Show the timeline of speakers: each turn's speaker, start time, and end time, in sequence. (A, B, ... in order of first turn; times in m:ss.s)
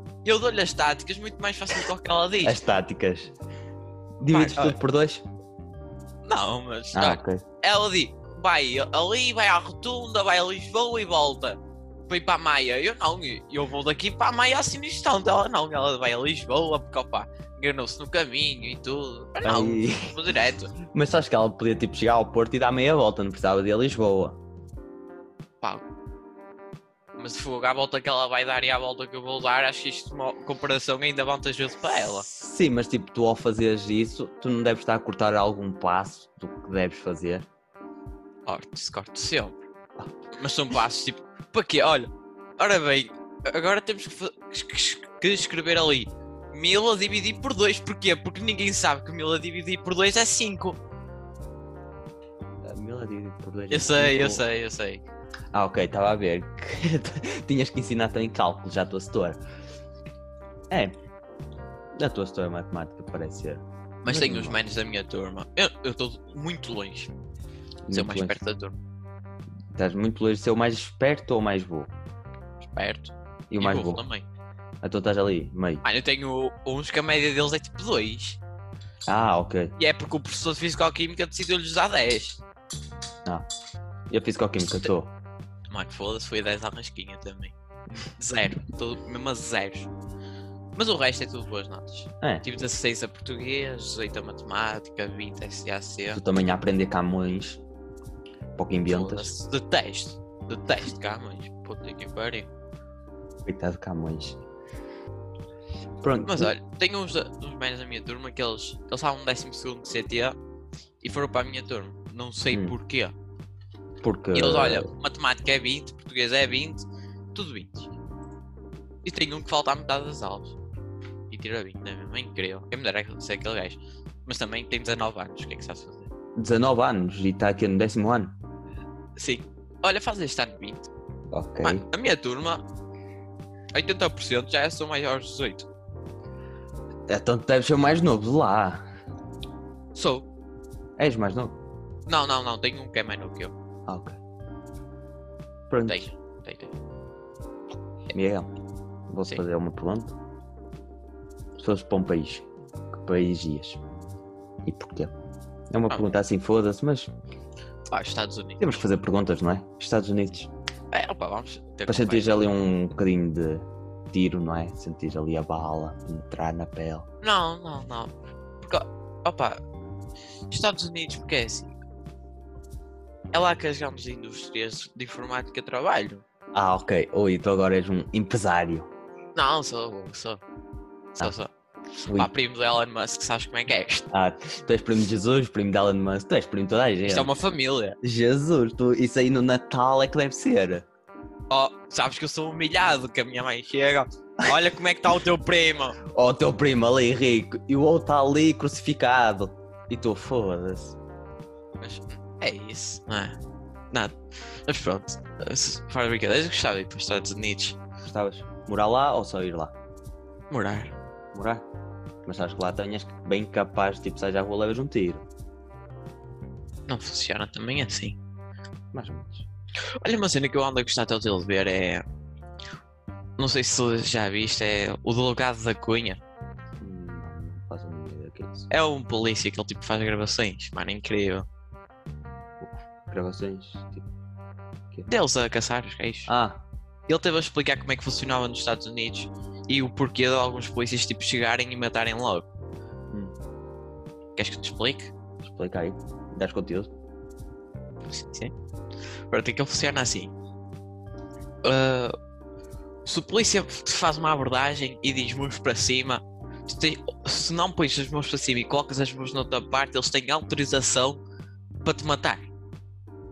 0:00.2-0:02.6 A
0:02.4-0:03.3 B
0:04.2-0:05.2 B
0:04.3-0:04.8 A
0:06.2-0:20.7 A
0:06.9-0:07.4 B
0:19.4-0:20.2 B
0:20.8-0:24.4 B
0:27.2-0:32.2 A
0:32.2-0:37.4 B
0:38.4-0:39.6 A
0:40.4-0:50.8 A
0:52.6-0:54.4 B
0:53.7-0:55.0 A
0:55.5-0:59.4 B
1:00.7-1:01.0 B
1:02.0-1:04.6 B
1:04.0-1:07.1 A
1:07.8-1:08.4 B
1:07.9-1:08.8 A
1:09.7-1:11.9 B
1:12.6-1:14.2 A
1:13.5-1:14.0 B
1:14.8-1:15.8 B
1:15.8-1:18.4 A
1:19.1-1:19.7 B
1:19.8-1:22.4 A
1:24.1-1:25.1 B
1:25.7-1:29.9 A
1:30.8-1:36.2 A
1:32.2-1:32.4 B
1:36.1-1:37.6 B
1:38.6-1:39.3 B
1:38.9-1:42.5 A
1:43.4-1:44.4 B
1:46.0-1:46.5 B
1:46.2-1:50.3 A
1:51.0-1:53.1 A
1:54.0-1:54.9 B
1:54.3-1:57.9 A
1:59.0-2:00.6 A
2:01.3-2:06.1 A
2:06.4-2:08.3 B
2:09.2-2:10.9 A
2:11.3-2:11.8 B
2:11.6-2:12.6 A
2:13.7-2:15.7 A
2:17.1-2:18.8 B
2:19.9-2:20.2 A
2:21.0-2:21.6 B
2:22.1-2:23.5 A
2:23.9-2:24.2 B
2:25.7-2:26.0 B
2:25.9-2:26.7 A
2:28.1-2:28.5 B
2:29.1-2:30.1 B
2:31.6-2:33.8 B
2:34.6-2:35.1 B
2:35.7-2:37.1 B
2:37.9-2:38.6 A
2:38.6-2:40.5 B
2:40.9-2:42.4 A
2:41.9-2:47.1 B
2:47.2-2:49.6 A
2:50.5-2:51.8 A
2:53.3-2:56.2 A
2:56.5-2:58.9 B
2:59.3-3:00.4 A
3:01.2-3:01.5 A
3:02.0-3:02.3 B
3:02.1-3:04.1 A
3:04.1-3:07.3 B
3:07.0-3:08.0 A
3:08.0-3:10.8 B
3:11.5-3:16.0 A
3:16.0-3:21.0 B
3:21.8-3:23.3 A
3:23.9-3:27.8 A
3:28.0-3:29.7 B
3:30.5-3:30.9 A
3:31.3-3:31.6 B
3:32.2-3:35.2 B
3:36.9-3:38.2 A
3:38.9-3:39.5 B
3:40.0-3:42.0 A
3:43.4-3:46.2 A
3:46.8-3:48.7 B
3:48.7-3:51.5 A
3:52.6-3:54.1 B
3:55.1-3:56.3 A
3:56.3-3:56.6 B
3:57.1-4:02.5 A
4:03.1-4:03.3 B
4:04.4-4:05.1 A
4:05.4-4:06.9 B
4:08.1-4:08.5 A
4:09.3-4:10.3 A
4:11.6-4:12.1 A
4:13.0-4:21.2 A
4:21.8-4:22.5 A